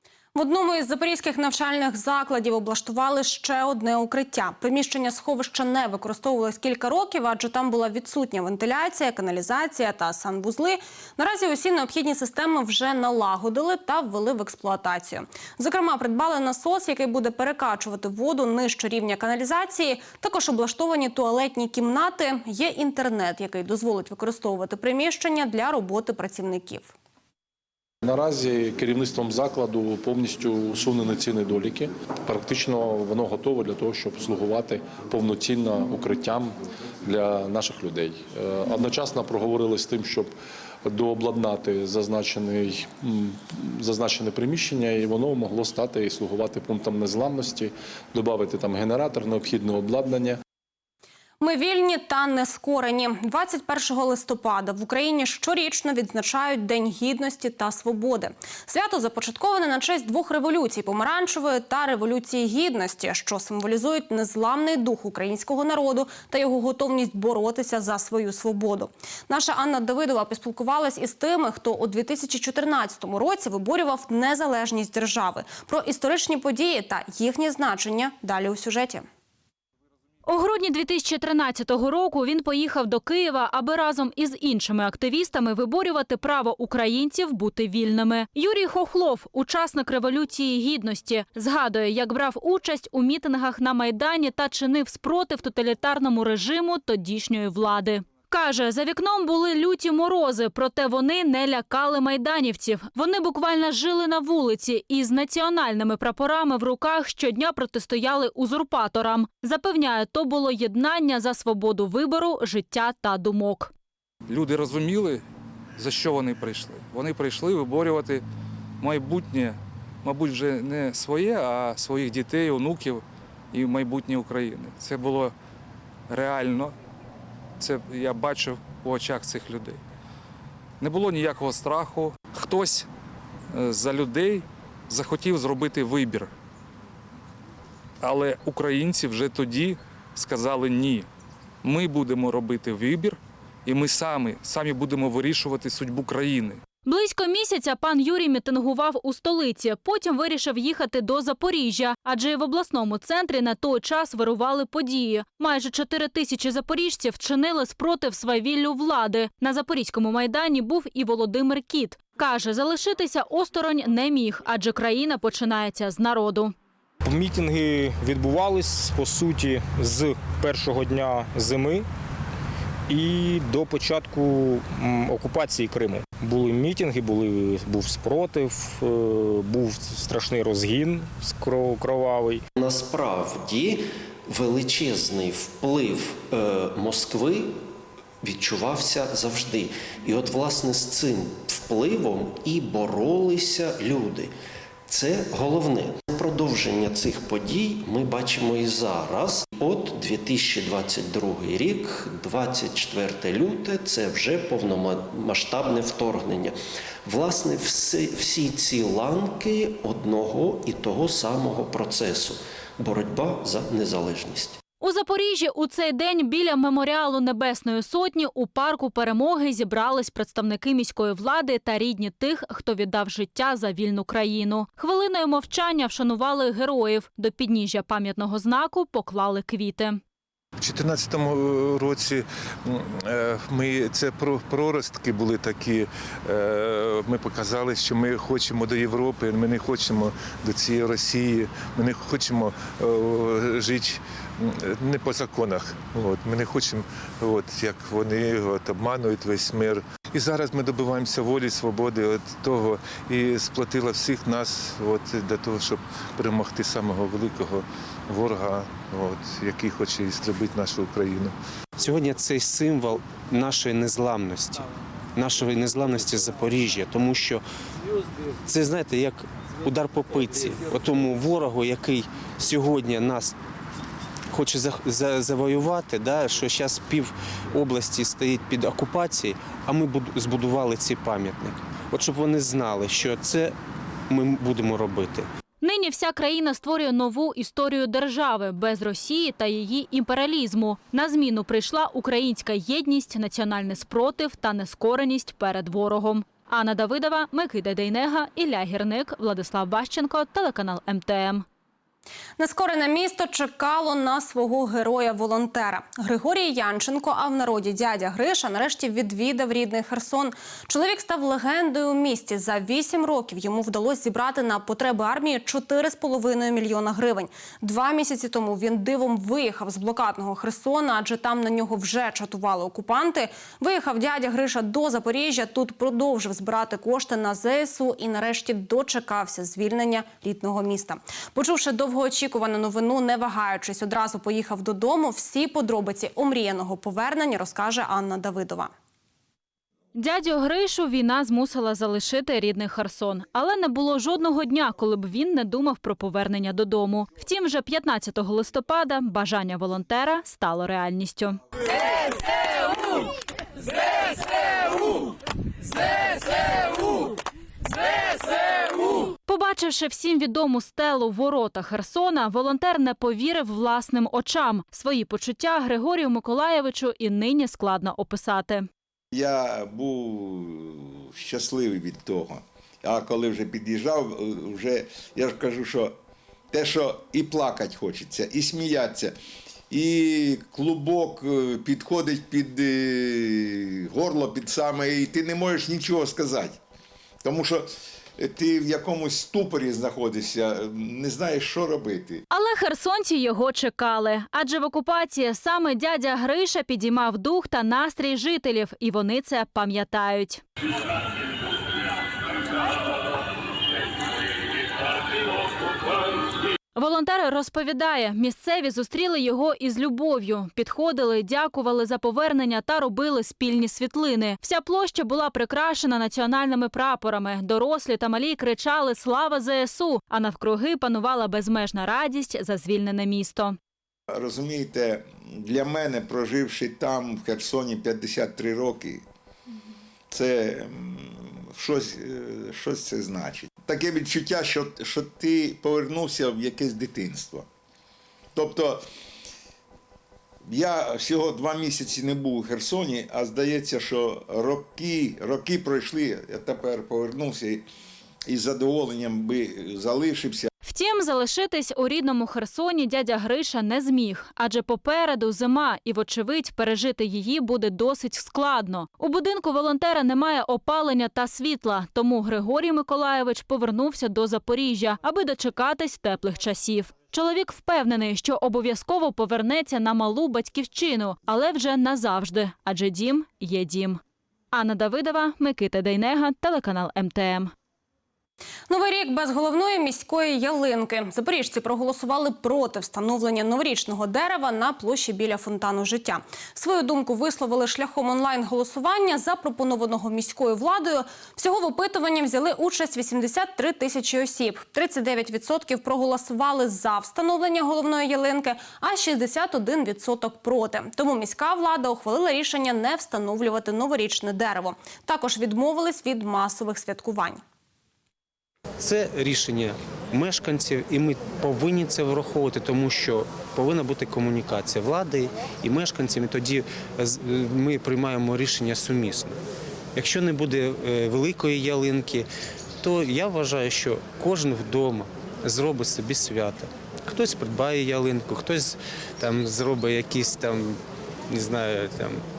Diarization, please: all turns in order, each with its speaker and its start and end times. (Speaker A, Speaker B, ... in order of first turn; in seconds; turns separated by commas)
Speaker A: 0.3-26.9, Speaker B: 28.0-40.3, Speaker B: 40.9-50.4, Speaker A: 51.4-79.0, Speaker C: 80.2-113.7, Speaker D: 114.3-115.2, Speaker D: 115.8-118.2, Speaker D: 118.8-125.3, Speaker D: 126.1-126.7, Speaker D: 127.6-129.8, Speaker D: 130.8-132.9, Speaker D: 133.5-136.3, Speaker D: 138.0-141.1, Speaker D: 141.6-146.6, Speaker C: 146.8-166.5, Speaker E: 167.0-171.9, Speaker E: 172.9-182.4, Speaker F: 182.6-187.6, Speaker F: 188.2-194.3, Speaker F: 194.9-214.6, Speaker C: 214.8-230.0, Speaker G: 230.6-261.3, Speaker H: 261.8-267.4, Speaker H: 268.4-273.3, Speaker H: 274.3-283.5, Speaker H: 284.1-285.3, Speaker C: 285.6-301.4, Speaker A: 302.4-338.7, Speaker C: 339.9-351.4, Speaker C: 359.2-368.7, Speaker I: 369.1-375.9, Speaker I: 376.5-379.1, Speaker I: 379.7-386.6, Speaker I: 387.2-392.2, Speaker C: 392.3-400.4, Speaker C: 406.8-423.6, Speaker I: 424.1-429.0, Speaker I: 430.1-437.5, Speaker I: 438.3-438.8, Speaker I: 440.5-447.6, Speaker I: 448.2-450.5, Speaker C: 450.6-474.0, Speaker C: 474.5-477.5, Speaker A: 478.7-507.4, Speaker H: 508.8-519.4, Speaker H: 520.0-522.3, Speaker H: 522.8-530.8, Speaker H: 531.3-532.2